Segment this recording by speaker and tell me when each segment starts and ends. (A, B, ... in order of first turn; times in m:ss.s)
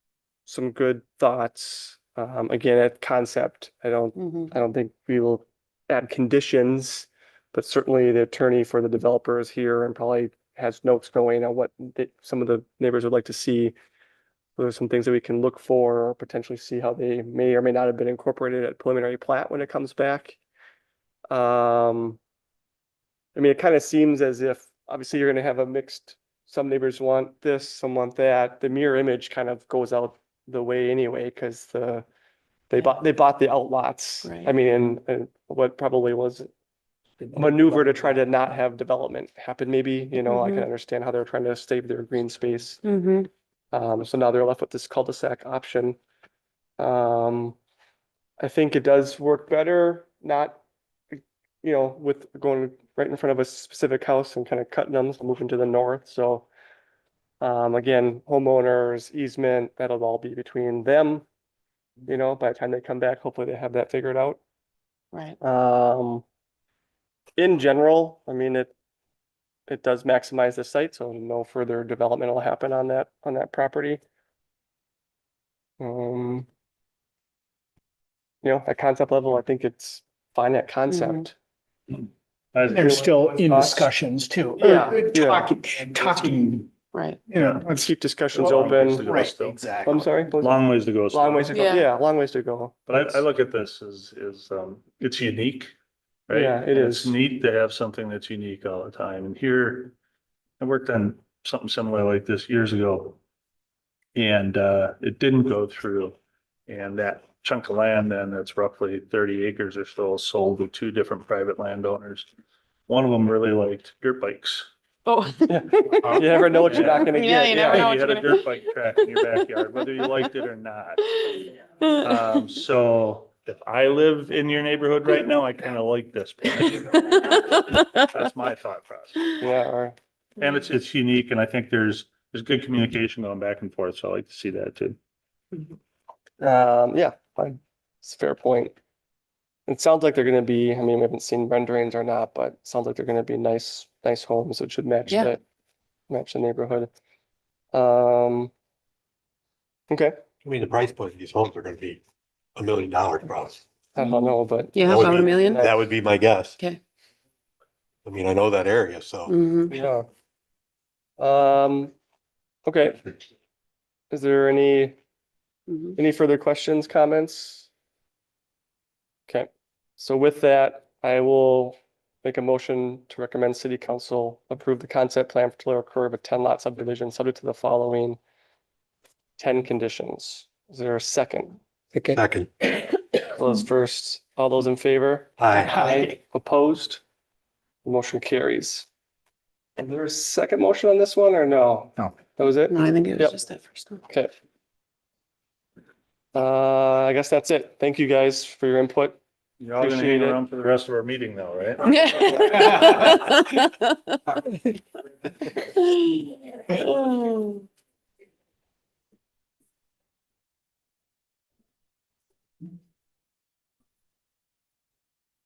0:00.5-0:13.7 A
0:04.2-0:04.5 B
0:14.6-0:20.4 A
0:21.3-0:22.2 A
0:23.3-0:32.0 A
0:32.7-0:36.5 A
0:34.2-0:34.5 B
0:37.3-0:42.8 A
0:40.2-0:40.7 B
0:42.8-0:43.3 B
0:43.7-0:46.0 A
0:46.8-0:47.6 A
0:48.4-0:50.6 A
0:51.6-0:56.5 A
0:57.4-1:01.2 A
1:02.1-1:04.4 A
1:05.4-1:06.2 A
1:07.4-1:08.7 A
1:09.7-1:14.0 A
1:15.8-1:16.5 A
1:18.4-1:21.3 A
1:20.9-1:21.2 B
1:22.6-1:23.0 C
1:22.7-1:26.7 D
1:22.7-1:23.9 A
1:24.6-1:25.5 A
1:26.9-1:27.2 B
1:27.3-1:27.8 D
1:27.4-1:27.6 C
1:27.7-1:29.0 A
1:28.3-1:29.6 C
1:29.0-1:30.0 D
1:29.8-1:33.2 A
1:30.3-1:31.5 C
1:31.5-1:31.9 B
1:32.9-1:35.7 C
1:36.3-1:40.0 C
1:36.3-1:37.2 A
1:40.6-1:43.2 C
1:44.2-1:46.2 C
1:46.7-1:52.3 C
1:52.9-1:54.7 C
1:55.1-1:59.2 B
1:55.5-1:57.9 A
1:56.6-2:01.1 C
2:01.2-2:02.4 B
2:02.0-2:09.3 C
2:09.4-2:09.9 A
2:10.4-2:15.0 C
2:16.4-2:18.7 A
2:19.7-2:25.4 A
2:25.1-2:25.3 B
2:26.1-2:26.9 A
2:27.7-2:28.5 A
2:29.9-2:30.2 A
2:30.4-2:32.0 E
2:32.6-2:33.6 E
2:33.9-2:35.8 A
2:34.0-2:35.7 B
2:34.8-2:36.6 E
2:38.0-2:39.3 E
2:39.3-2:39.7 B
2:39.7-2:40.1 A
2:41.2-2:41.9 A
2:42.6-2:43.1 A
2:44.1-2:45.0 A
2:45.7-2:46.0 B
2:46.0-2:47.7 A
2:49.3-2:58.2 A
2:59.4-3:02.2 A
3:02.1-3:02.5 E
3:03.2-3:07.0 A
3:05.4-3:05.8 E
3:07.8-3:08.9 A
3:09.8-3:13.4 A
3:12.7-3:14.0 B
3:16.3-3:19.2 A
3:19.6-3:22.1 C
3:19.8-3:20.5 A
3:21.9-3:23.8 B
3:25.8-3:27.6 B